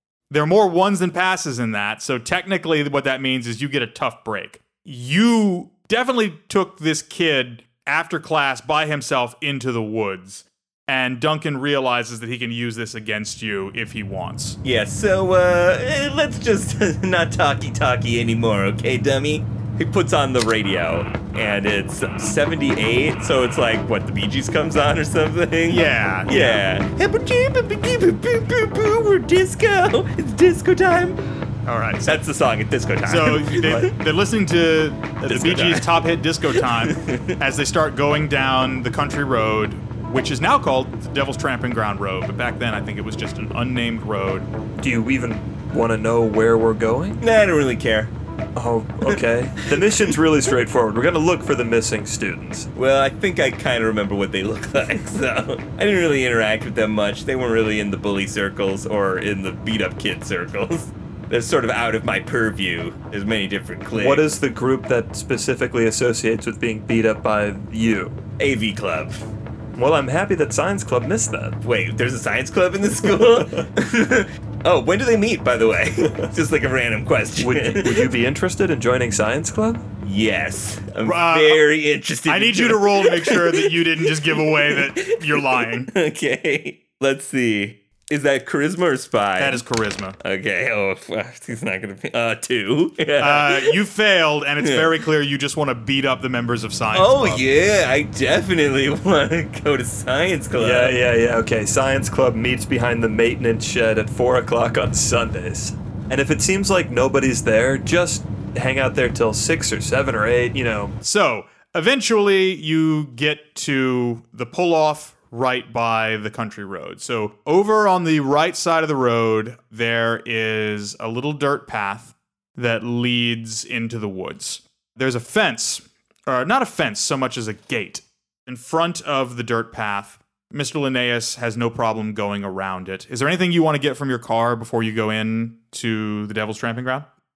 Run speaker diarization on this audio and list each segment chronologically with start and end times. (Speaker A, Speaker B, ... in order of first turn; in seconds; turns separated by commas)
Speaker A: 0.3-14.6, Speaker B: 14.6-31.2, Speaker A: 25.7-26.6, Speaker A: 31.7-32.2, Speaker B: 32.0-33.9, Speaker A: 33.0-44.5, Speaker B: 35.3-35.9, Speaker B: 36.5-37.4, Speaker C: 44.8-47.2, Speaker B: 47.2-48.1, Speaker C: 48.6-52.7, Speaker B: 49.7-50.2, Speaker B: 52.8-64.3, Speaker C: 64.0-68.2, Speaker B: 68.4-69.2, Speaker C: 69.8-71.6, Speaker B: 71.6-78.1, Speaker C: 77.4-79.8, Speaker B: 80.0-89.6, Speaker A: 81.0-81.7, Speaker A: 82.3-85.9, Speaker A: 89.4-90.2, Speaker B: 90.2-93.8, Speaker A: 93.2-97.4, Speaker B: 94.6-94.9, Speaker B: 96.9-101.0, Speaker C: 100.6-110.9, Speaker A: 111.0-137.1